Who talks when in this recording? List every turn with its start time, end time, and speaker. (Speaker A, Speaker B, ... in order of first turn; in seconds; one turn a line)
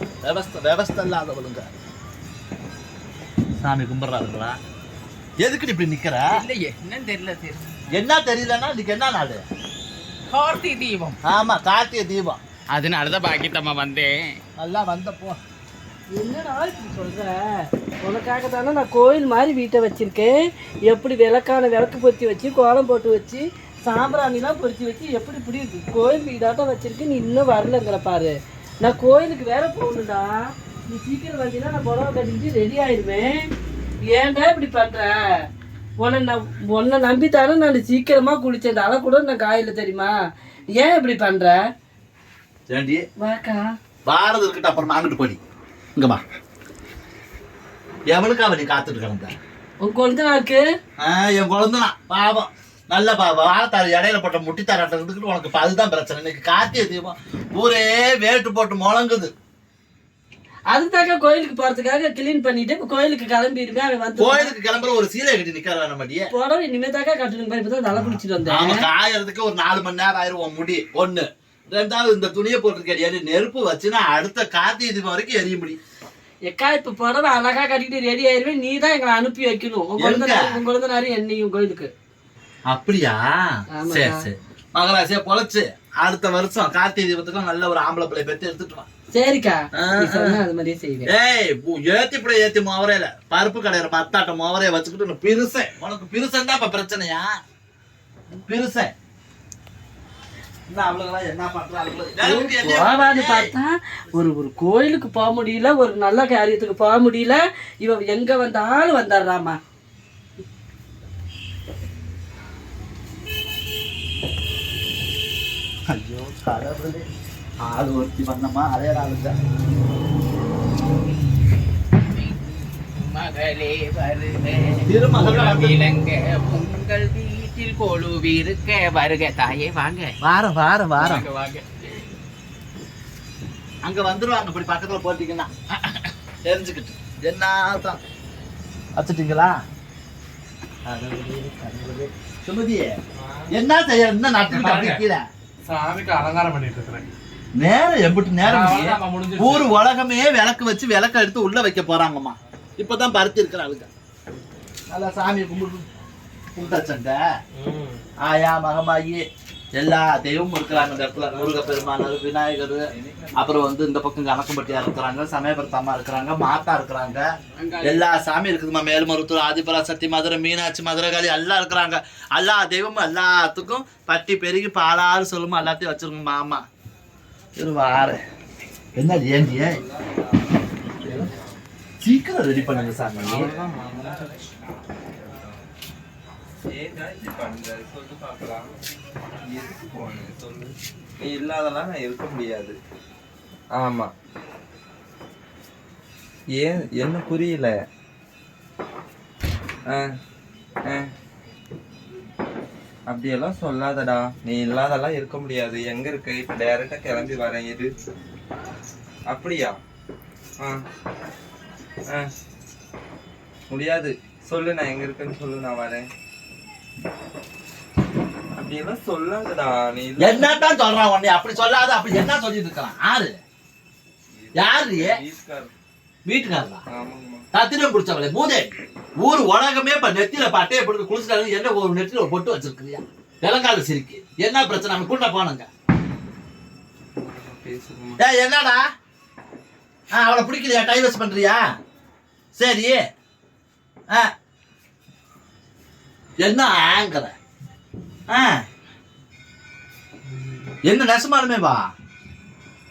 Speaker A: 0.2-1.7
Speaker A: 3.6-4.5
Speaker A: 5.4-6.4
Speaker B: 6.4-7.7
Speaker A: 7.9-9.4
Speaker B: 10.3-11.1
Speaker A: 11.2-12.4
Speaker B: 12.7-14.4
Speaker A: 14.6-15.4
Speaker C: 16.1-17.4
Speaker C: 18.0-20.3
Speaker C: 20.9-33.5
Speaker C: 34.0-35.1
Speaker C: 36.0-40.1
Speaker C: 40.7-41.6
Speaker A: 42.7-43.0
Speaker C: 43.2-43.7
Speaker A: 44.0-45.4
Speaker A: 46.0-46.2
Speaker A: 48.1-49.3
Speaker C: 49.8-50.6
Speaker A: 51.0-59.3
Speaker C: 60.7-64.5
Speaker A: 64.2-66.3
Speaker C: 66.3-68.8
Speaker A: 67.9-75.8
Speaker C: 76.5-81.9
Speaker A: 80.0-80.6
Speaker A: 82.7-88.9
Speaker C: 83.8-84.2
Speaker C: 89.1-91.1
Speaker A: 89.8-90.4
Speaker A: 91.0-97.3
Speaker A: 98.5-98.9
Speaker A: 100.7-103.5
Speaker C: 102.2-109.5
Speaker A: 115.9-117.1
Speaker A: 117.6-119.3
Speaker B: 123.1-130.1
Speaker A: 124.8-125.8
Speaker A: 130.2-131.3
Speaker B: 131.0-131.6
Speaker A: 133.8-138.0
Speaker A: 139.0-139.6
Speaker A: 140.8-142.9
Speaker A: 143.5-145.2
Speaker D: 144.5-145.0
Speaker D: 145.7-147.0
Speaker A: 147.6-153.9
Speaker D: 148.4-149.7
Speaker A: 154.9-155.8
Speaker A: 156.5-157.2
Speaker A: 158.2-159.2
Speaker A: 159.8-167.3
Speaker E: 160.7-162.1
Speaker E: 162.9-163.7
Speaker D: 167.6-168.0
Speaker A: 167.8-176.6
Speaker A: 177.6-178.2
Speaker A: 178.9-179.8
Speaker E: 179.2-181.6
Speaker A: 182.0-183.5
Speaker E: 182.5-184.5
Speaker E: 185.1-185.7
Speaker E: 186.7-188.7
Speaker E: 189.4-192.8
Speaker E: 193.7-194.1
Speaker E: 196.5-197.7
Speaker E: 203.1-207.9
Speaker E: 209.3-209.8
Speaker E: 213.7-216.1
Speaker E: 218.5-220.7
Speaker A: 220.2-223.4
Speaker E: 224.3-225.7
Speaker A: 224.5-225.2
Speaker A: 226.2-226.8
Speaker E: 226.9-227.4
Speaker A: 227.5-235.7
Speaker E: 237.2-238.2
Speaker A: 238.2-238.8
Speaker A: 240.1-241.6
Speaker A: 242.6-243.0
Speaker A: 246.4-247.3
Speaker A: 248.3-248.6
Speaker A: 250.8-251.8